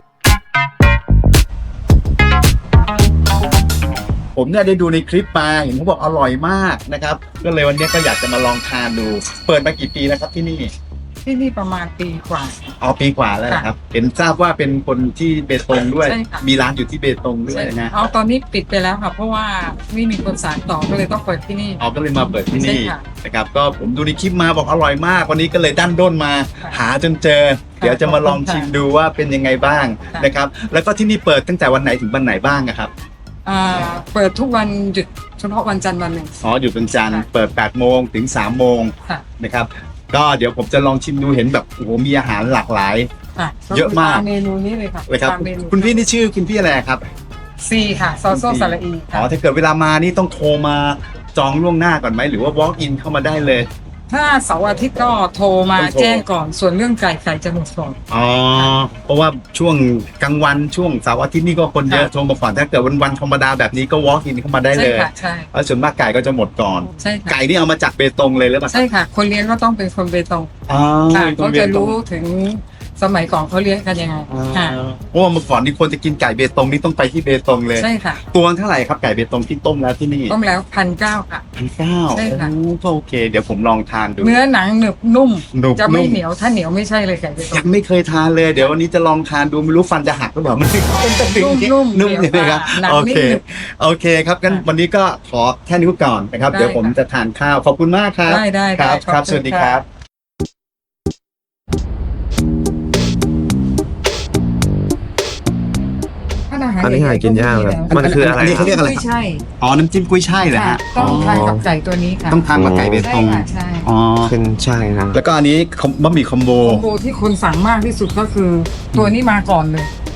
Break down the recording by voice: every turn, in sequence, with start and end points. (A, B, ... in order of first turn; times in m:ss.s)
0:04.3-0:10.7 A
0:11.2-0:12.6 B
0:12.8-0:17.9 A
0:16.0-0:16.4 B
0:17.5-0:21.8 B
0:21.8-0:32.9 A
0:22.4-0:23.0 B
0:27.8-0:28.7 B
0:33.4-0:36.4 B
0:36.4-0:43.1 A
0:43.3-0:46.0 B
0:43.7-0:44.3 A
0:45.1-0:47.0 A
0:47.6-0:49.3 B
0:48.3-0:53.7 A
0:54.1-0:58.0 B
0:55.8-0:56.2 A
0:58.1-1:08.8 A
1:04.7-1:05.5 B
1:07.0-1:07.4 B
1:08.7-1:10.5 B
1:10.7-1:12.0 A
1:11.1-1:14.8 B
1:14.3-1:20.3 A
1:17.8-1:18.2 B
1:20.3-1:21.4 B
1:21.6-1:24.4 A
1:22.1-1:22.5 B
1:24.2-1:27.7 B
1:25.5-1:26.2 A
1:27.5-1:39.8 A
1:31.0-1:33.4 B
1:36.5-1:37.0 B
1:38.3-1:39.8 B
1:46.5-1:49.4 B
1:46.8-1:48.7 C
1:47.9-1:49.0 A
1:49.6-1:51.6 A
1:50.5-1:53.9 B
1:51.0-1:51.6 C
1:52.3-1:54.3 A
1:52.5-1:53.0 C
1:54.2-1:55.2 C
1:55.1-1:56.8 A
1:56.6-1:59.9 B